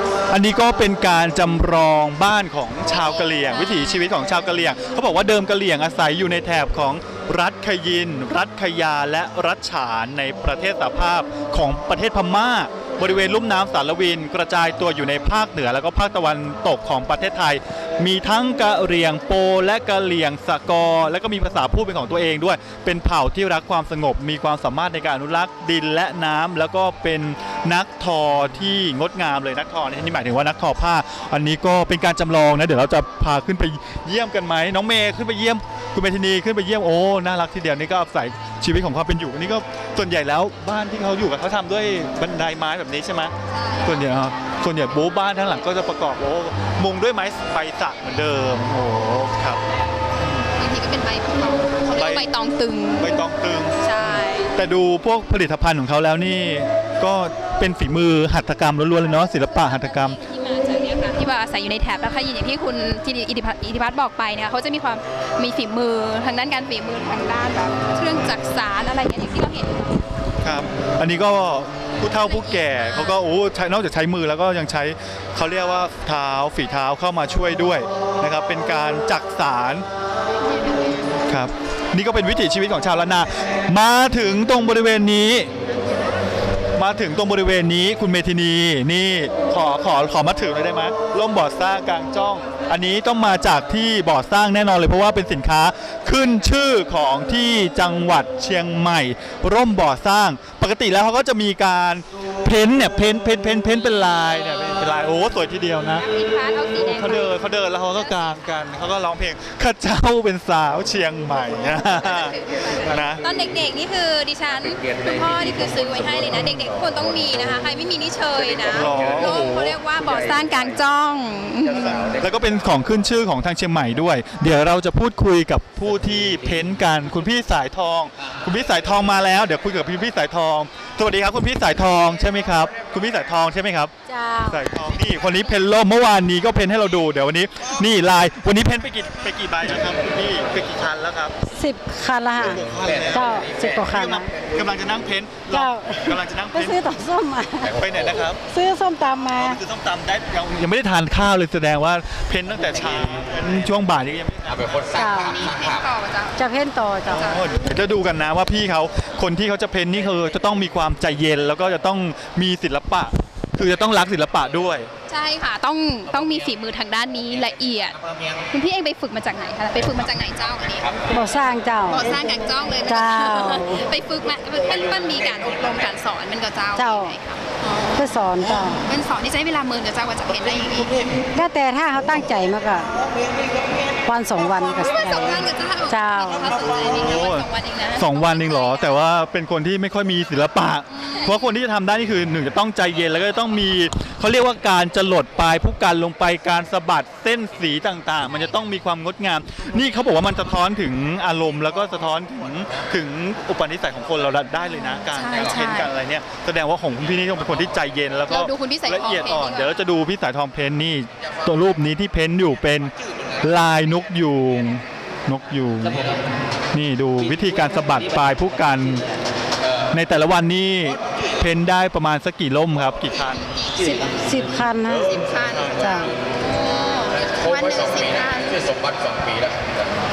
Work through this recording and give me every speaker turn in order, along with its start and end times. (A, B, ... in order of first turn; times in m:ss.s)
0:00.3-0:43.3 A
0:02.9-0:04.3 B
0:43.5-0:44.5 B
0:43.8-0:49.6 A
0:50.2-0:50.4 A
0:50.6-0:53.2 B
0:51.9-0:52.3 A
0:53.0-0:53.8 A
0:53.8-0:54.5 B
0:54.5-1:00.2 A
0:59.1-1:10.0 B
1:10.4-1:19.8 A
1:12.2-1:13.2 B
1:21.3-1:25.5 A
1:26.8-1:46.0 A
1:46.0-1:48.6 B
1:46.8-1:53.2 A
1:51.7-2:02.0 B
1:56.3-1:56.6 A
1:58.7-1:59.8 A
2:01.8-2:13.9 A
2:14.1-2:14.6 C
2:14.4-2:21.4 A
2:21.5-2:24.3 C
2:22.5-2:26.9 A
2:25.5-2:27.8 C
2:27.7-2:28.4 A
2:28.5-2:29.6 C
2:29.3-2:35.0 A
2:35.0-2:35.5 C
2:35.1-2:36.4 B
2:36.4-2:37.3 C
2:37.1-2:44.9 A
2:37.1-2:37.4 B
2:45.1-2:48.0 B
2:48.5-2:51.0 B
2:51.1-2:52.0 C
2:51.9-2:57.9 B
2:52.8-2:53.8 C
2:56.8-2:57.1 C
2:57.9-2:58.8 C
2:58.8-3:01.0 B
3:01.3-3:02.9 C
3:04.0-3:06.6 C
3:04.8-3:09.0 B
3:06.6-3:36.0 A
3:11.0-3:11.5 B
3:25.1-3:25.9 B
3:28.3-3:29.8 B
3:36.7-3:39.0 A
3:39.9-3:43.5 A
3:43.8-3:46.1 C
3:45.0-3:49.1 B